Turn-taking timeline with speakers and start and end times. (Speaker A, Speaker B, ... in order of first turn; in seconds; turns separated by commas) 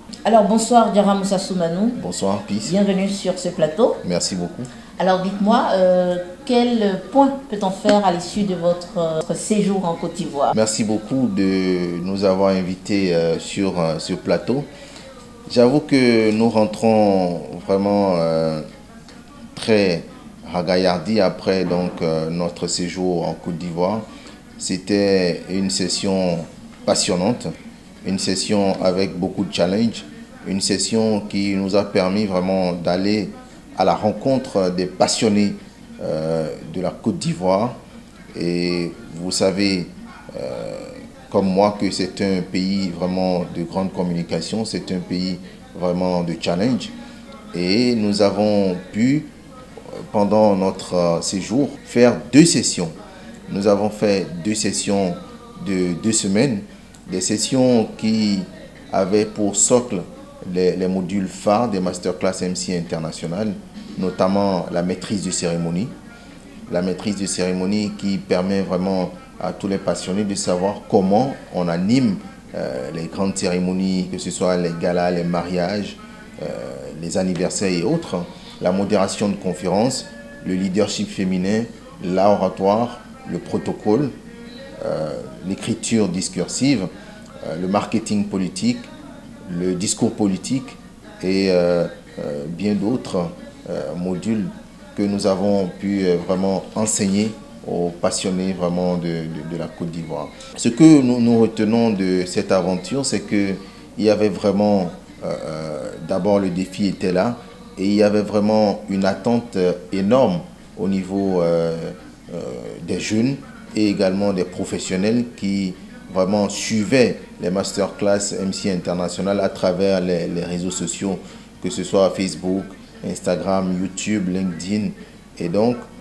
Speaker A: 0.2-2.0, Speaker B: 2.0-2.7, Speaker A: 2.6-4.0, Speaker B: 4.0-4.7, Speaker A: 5.0-10.5, Speaker B: 10.5-14.7, Speaker B: 15.5-18.6, Speaker B: 19.5-24.1, Speaker B: 24.6-27.5, Speaker B: 28.0-37.8, Speaker B: 38.3-46.9, Speaker B: 47.5-49.3, Speaker B: 50.1-52.9, Speaker B: 53.5-65.9, Speaker B: 66.7-84.1, Speaker B: 84.8-86.9, Speaker B: 87.4-88.9, Speaker B: 89.5-125.8